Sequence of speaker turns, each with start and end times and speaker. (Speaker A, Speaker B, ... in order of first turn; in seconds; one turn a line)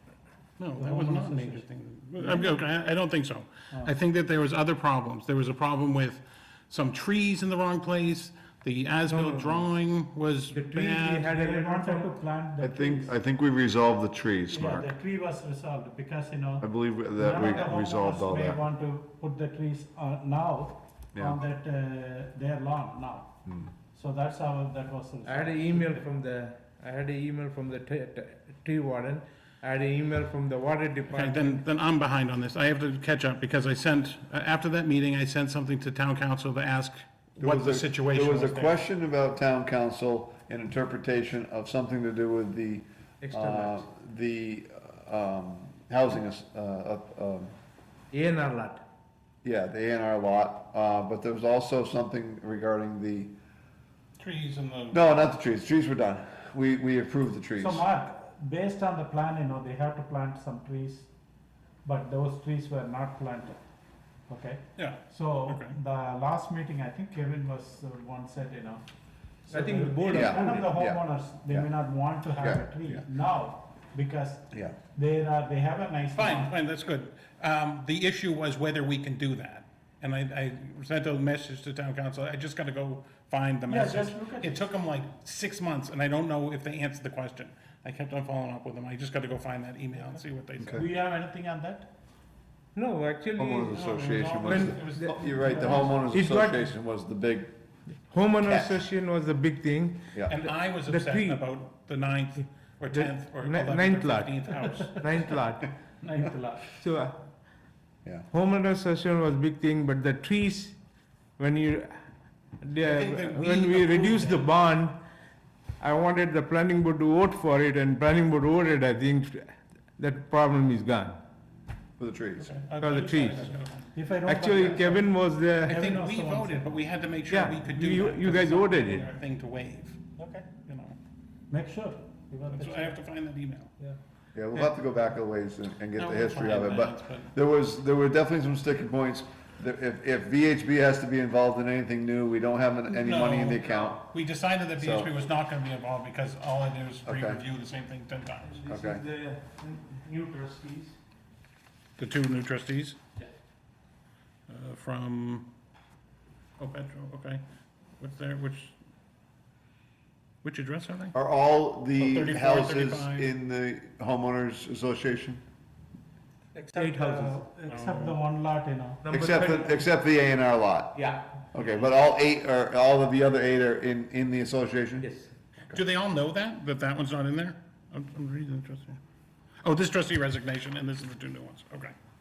Speaker A: 0.6-11.3
Speaker B: 0.8-1.6
Speaker B: 2.2-2.7
Speaker C: 9.1-9.7
Speaker C: 10.5-12.1
Speaker B: 11.3-13.2
Speaker D: 12.6-14.9
Speaker B: 14.5-16.7
Speaker D: 16.6-18.6
Speaker B: 17.2-23.3
Speaker B: 23.9-26.0
Speaker C: 25.2-31.6
Speaker A: 31.1-38.8
Speaker D: 37.4-47.5
Speaker C: 43.2-43.9
Speaker C: 48.1-48.8
Speaker D: 49.4-53.3
Speaker A: 54.2-55.0
Speaker D: 54.9-57.9
Speaker B: 57.6-61.1
Speaker B: 61.9-63.6
Speaker B: 64.3-68.8
Speaker A: 64.8-65.8
Speaker B: 69.5-76.5
Speaker C: 69.5-70.7
Speaker D: 70.1-71.7
Speaker D: 72.4-73.0
Speaker A: 76.1-90.9
Speaker B: 83.7-84.6
Speaker B: 90.7-91.9
Speaker C: 92.7-93.9
Speaker D: 93.4-97.5
Speaker A: 93.7-95.9
Speaker C: 94.5-96.7
Speaker B: 95.4-96.0
Speaker C: 98.1-101.4
Speaker D: 98.5-98.8
Speaker A: 100.3-105.0
Speaker C: 102.9-105.7
Speaker B: 106.0-106.8
Speaker C: 106.8-107.2
Speaker C: 108.3-110.8
Speaker C: 111.4-112.0
Speaker C: 112.6-115.0
Speaker A: 112.8-114.5
Speaker C: 115.8-121.2
Speaker D: 122.0-122.5
Speaker A: 122.4-123.9
Speaker C: 122.8-123.5
Speaker B: 123.9-126.8
Speaker C: 124.3-125.9
Speaker A: 125.7-130.0
Speaker C: 127.3-129.1
Speaker B: 130.2-130.6
Speaker A: 130.7-131.0
Speaker B: 131.5-133.0
Speaker A: 132.5-133.7
Speaker D: 134.3-144.0
Speaker A: 135.9-137.3
Speaker A: 143.0-148.6
Speaker D: 144.8-145.1
Speaker D: 147.1-147.4
Speaker C: 148.4-151.0
Speaker D: 148.7-149.0
Speaker A: 152.0-153.0
Speaker A: 154.5-155.5
Speaker A: 156.6-157.4
Speaker A: 158.0-158.7
Speaker A: 160.4-161.1
Speaker D: 161.1-165.4
Speaker A: 162.0-163.3
Speaker B: 166.6-169.0
Speaker C: 166.7-167.4
Speaker A: 167.7-168.2
Speaker C: 169.0-169.9
Speaker D: 169.1-175.1
Speaker C: 170.9-171.3
Speaker C: 175.0-175.3
Speaker A: 175.7-179.0
Speaker A: 179.6-181.9